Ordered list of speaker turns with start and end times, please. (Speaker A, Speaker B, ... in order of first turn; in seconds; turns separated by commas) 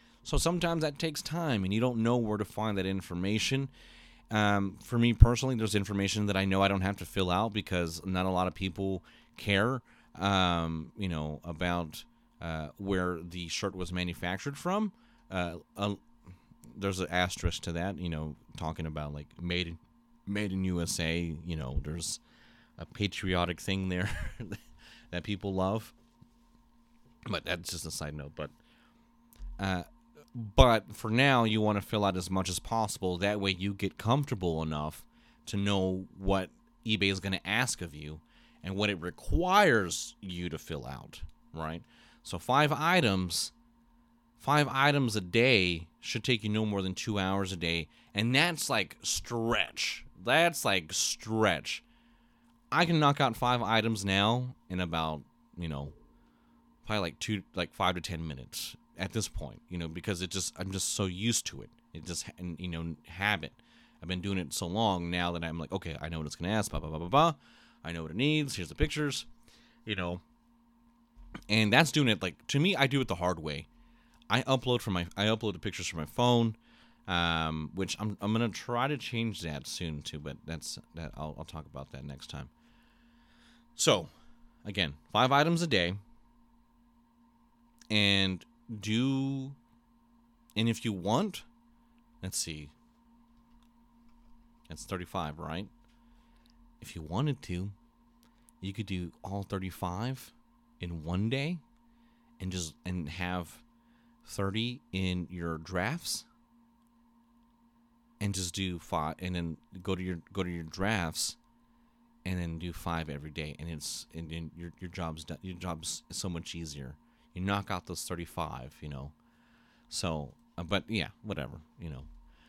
Speaker A: 0.2-3.7, Speaker A: 4.3-16.0, Speaker A: 16.7-22.2, Speaker A: 22.8-25.9, Speaker A: 27.3-28.5, Speaker A: 29.6-43.5, Speaker A: 44.4-51.8, Speaker A: 52.7-56.0, Speaker A: 56.8-69.3, Speaker A: 69.8-70.2, Speaker A: 71.5-73.7, Speaker A: 74.3-82.5, Speaker A: 83.8-84.1, Speaker A: 84.6-86.0, Speaker A: 87.9-89.6, Speaker A: 90.6-91.5, Speaker A: 92.2-92.7, Speaker A: 94.7-95.7, Speaker A: 96.8-97.8, Speaker A: 98.6-101.6, Speaker A: 102.4-103.6, Speaker A: 104.2-106.3, Speaker A: 108.2-111.4, Speaker A: 112.2-119.1, Speaker A: 119.9-122.1